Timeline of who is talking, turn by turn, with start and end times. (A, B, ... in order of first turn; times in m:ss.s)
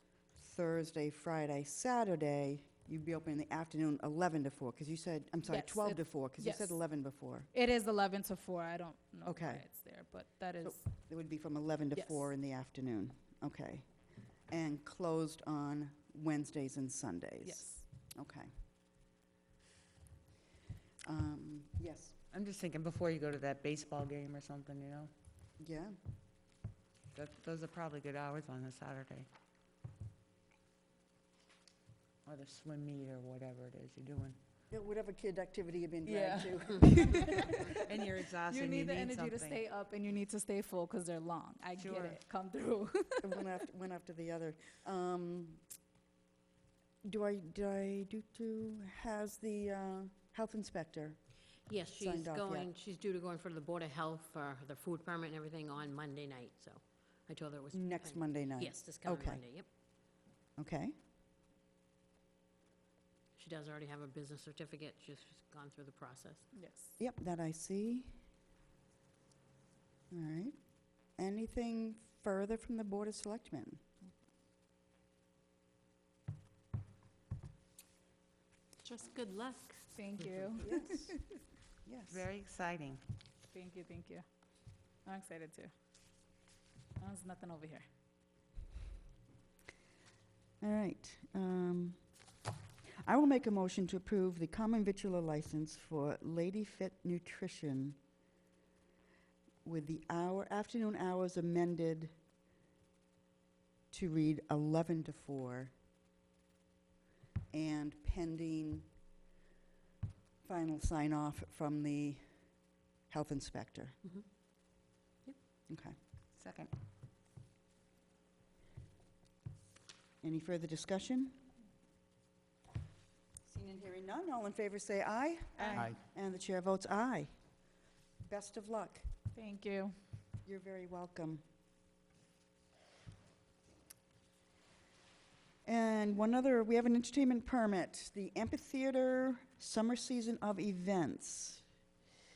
0:00.3-0:07.5 A
0:05.4-0:06.8 B
0:07.5-0:10.8 B
0:09.2-0:09.6 A
0:10.6-0:13.9 A
0:12.0-0:12.3 B
0:14.5-0:18.5 A
0:17.4-0:17.8 B
0:21.0-0:22.2 A
0:22.3-0:25.1 C
0:25.6-0:25.9 A
0:27.1-0:29.3 C
0:32.2-0:34.4 C
0:34.7-0:37.5 A
0:36.0-0:39.6 C
0:36.9-0:37.8 B
0:38.4-0:43.5 B
0:41.8-0:42.2 C
0:43.2-0:45.6 A
0:47.0-0:51.2 A
0:51.7-0:59.7 D
0:52.0-0:52.7 A
0:57.7-0:59.4 A
1:00.6-1:00.9 A
1:03.4-1:06.5 D
1:06.5-1:07.0 B
1:07.0-1:08.1 A
1:10.1-1:10.5 A
1:11.2-1:13.8 A
1:18.8-1:20.6 D
1:19.9-1:21.2 B
1:20.6-1:21.2 A
1:21.8-1:22.2 A
1:22.1-1:23.0 C
1:23.5-1:24.2 B
1:25.0-1:25.7 B
1:27.0-1:27.8 B
1:30.6-1:32.0 A
1:33.0-1:38.0 A
1:39.6-1:42.1 A
1:43.9-1:45.7 A
1:47.5-1:48.9 A
1:50.4-1:52.2 A
1:53.1-1:54.0 A
1:55.7-1:56.0 A
1:56.4-1:56.7 C
2:00.2-2:01.4 A
2:03.5-2:07.3 A
2:05.6-2:05.9 C
2:08.2-2:09.1 A
2:09.3-2:10.0 B
2:10.5-2:11.4 A
2:15.6-2:21.6 A